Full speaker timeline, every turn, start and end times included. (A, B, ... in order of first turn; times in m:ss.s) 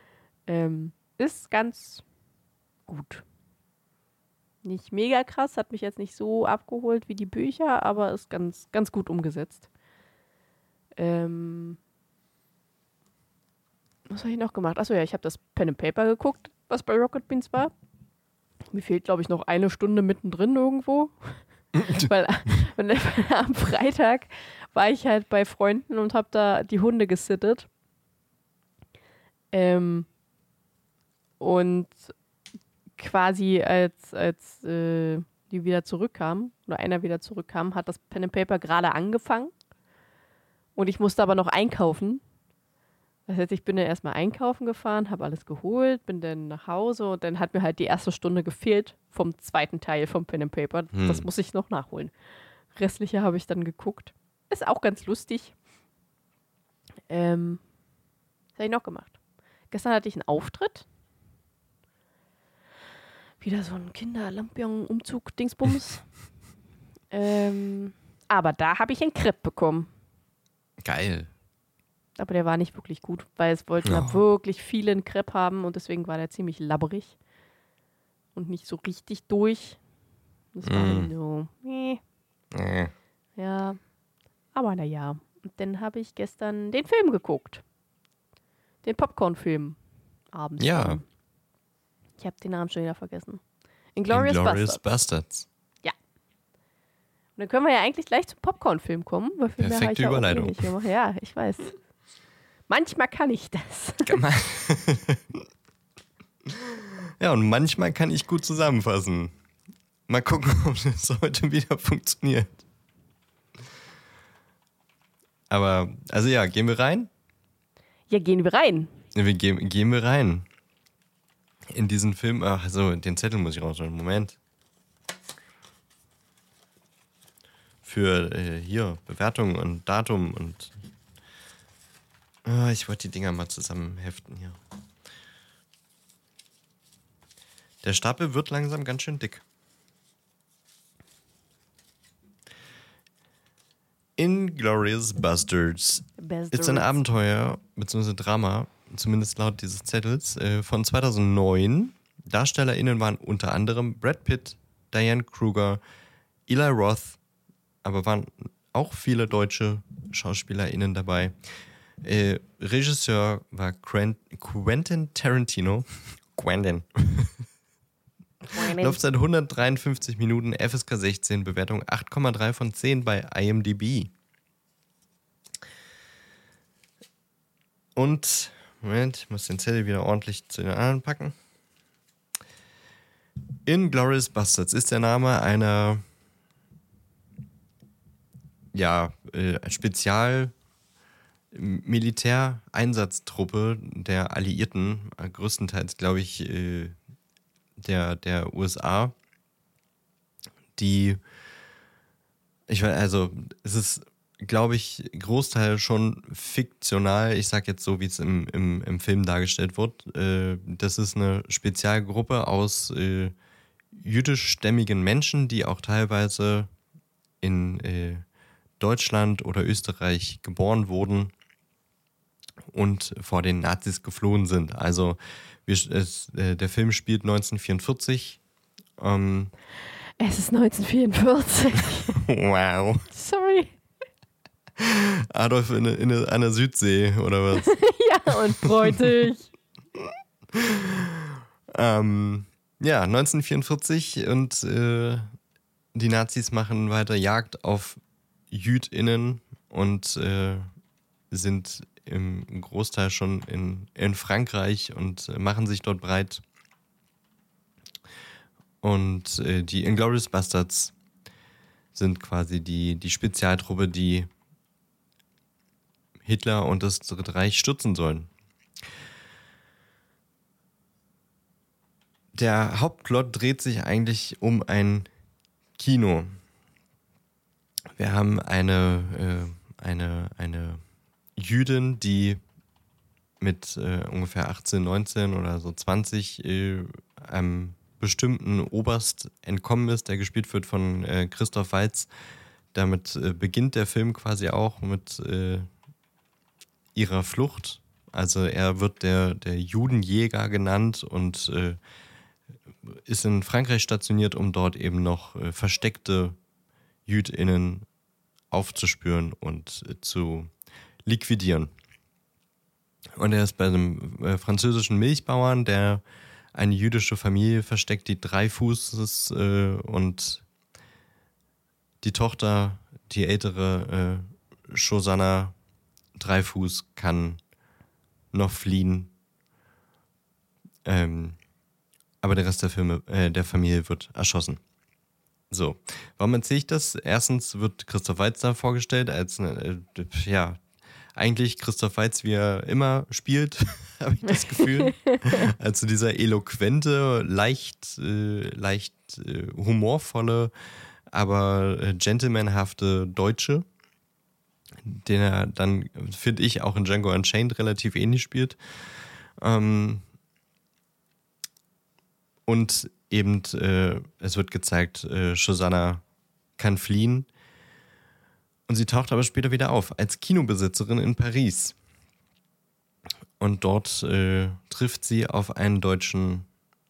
0:00.5-0:02.0 A
0:02.9-0:03.2 A
0:04.6-0:09.6 A
0:11.0-0:11.8 A
0:14.1-0:17.7 A
0:18.7-0:27.7 A
0:29.5-0:30.1 A
0:31.4-0:32.0 A
0:33.0-0:39.5 A
0:40.8-0:42.2 A
0:43.3-0:52.1 A
0:50.9-0:51.3 B
0:52.7-0:55.5 A
0:57.1-0:57.6 A
0:58.6-0:59.1 A
0:59.7-1:00.8 A
1:03.4-1:06.0 A
1:07.1-1:09.9 A
1:10.8-1:11.3 B
1:12.2-1:17.2 A
1:13.8-1:14.2 B
1:18.3-1:19.8 A
1:20.5-1:22.0 A
1:20.6-1:21.1 B
1:22.5-1:22.9 B
1:23.4-1:23.8 A
1:24.5-1:27.6 A
1:28.8-1:29.8 A
1:30.3-1:31.0 A
1:30.6-1:31.0 B
1:32.2-1:33.4 A
1:34.0-1:34.8 A
1:34.1-1:35.5 B
1:37.4-1:41.7 A
1:39.6-1:40.6 B
1:42.7-1:44.2 A
1:44.0-1:45.4 B
1:46.5-1:49.3 B
1:50.1-1:52.6 B
1:55.5-1:57.1 B
1:58.1-1:58.9 A
1:59.1-2:00.4 B
2:01.7-2:04.4 B
2:07.8-2:10.7 B
2:12.4-2:14.6 B
2:17.8-2:19.4 B
2:24.2-2:35.8 B
2:26.2-2:27.0 A
2:36.5-2:37.2 B
2:37.8-2:41.3 B
2:42.0-2:47.3 B
2:48.5-2:49.0 A
2:48.5-2:54.1 B
2:58.0-3:01.4 B
3:03.6-3:06.0 B
3:08.7-3:10.5 B
3:11.5-3:17.0 B
3:17.8-3:19.1 B
3:20.8-3:21.2 B
3:22.7-3:33.3 B
3:33.9-3:36.7 B
3:37.4-3:38.2 B
3:38.8-3:41.3 B
3:42.7-3:48.4 B
3:49.0-3:49.5 B
3:50.2-3:52.2 A
3:52.1-3:53.0 B
3:53.1-3:53.8 A
3:54.8-3:57.8 B
3:57.5-3:59.5 A
3:58.3-3:59.2 B
4:00.0-4:05.3 B
4:05.9-4:08.0 B
4:08.5-4:10.7 B
4:11.3-4:16.4 B
4:18.8-4:20.9 B
4:21.9-4:24.3 B
4:26.2-4:28.3 B
4:32.3-4:35.1 B
4:35.8-4:36.4 B
4:37.9-4:40.8 B
4:41.4-4:42.4 B
4:43.4-4:52.1 B
4:52.7-4:55.7 B
4:56.9-5:01.8 B
5:02.8-5:06.4 B
5:07.0-5:07.8 B
5:08.5-5:10.5 B
5:11.0-5:11.7 B
5:13.2-5:16.0 B
5:16.5-5:20.4 B
5:22.0-5:25.5 B
5:26.2-5:27.4 B
5:28.3-5:29.1 B
5:30.8-5:31.4 B
5:32.2-5:34.6 B
5:35.5-5:40.6 B
5:41.2-5:50.5 B
5:44.5-5:45.4 A
5:51.1-5:53.6 B
5:54.8-5:58.6 B
5:59.4-6:00.0 B
6:02.5-6:06.0 B
6:06.6-6:07.3 B
6:08.7-6:11.7 B
6:13.4-6:16.5 B